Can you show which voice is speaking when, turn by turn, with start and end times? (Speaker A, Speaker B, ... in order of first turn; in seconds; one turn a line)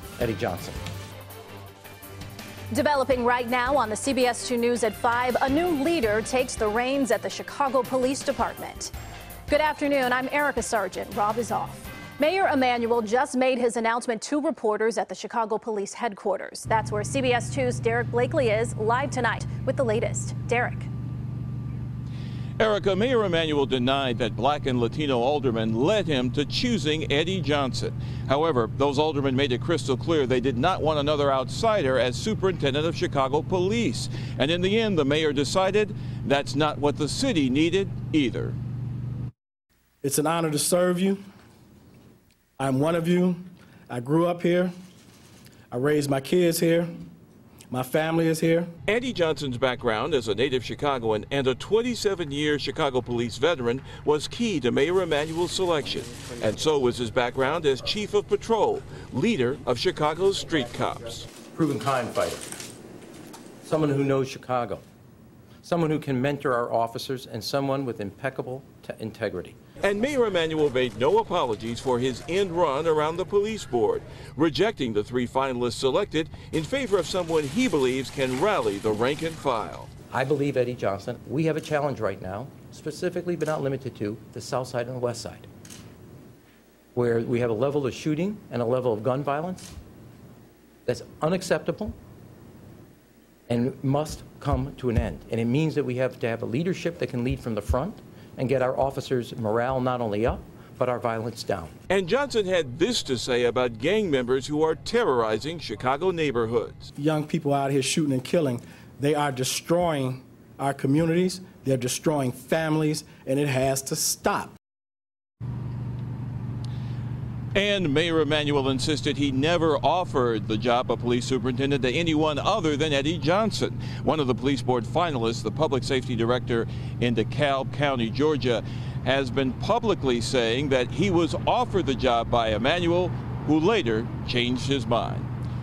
Speaker A: 0.2-0.8
Speaker B: 2.7-8.9
Speaker B: 9.5-20.9
Speaker C: 22.6-38.6
Speaker D: 40.0-41.2
Speaker D: 42.6-44.7
Speaker D: 45.7-46.9
Speaker D: 47.7-48.7
Speaker C: 48.9-61.3
Speaker A: 61.5-62.5
Speaker A: 63.6-64.8
Speaker A: 65.6-69.6
Speaker C: 69.8-79.9
Speaker A: 80.1-85.5
Speaker A: 87.0-89.7
Speaker A: 90.9-92.0
Speaker A: 93.5-101.8
Speaker C: 101.9-106.9
Speaker D: 107.0-114.5
Speaker C: 117.5-135.3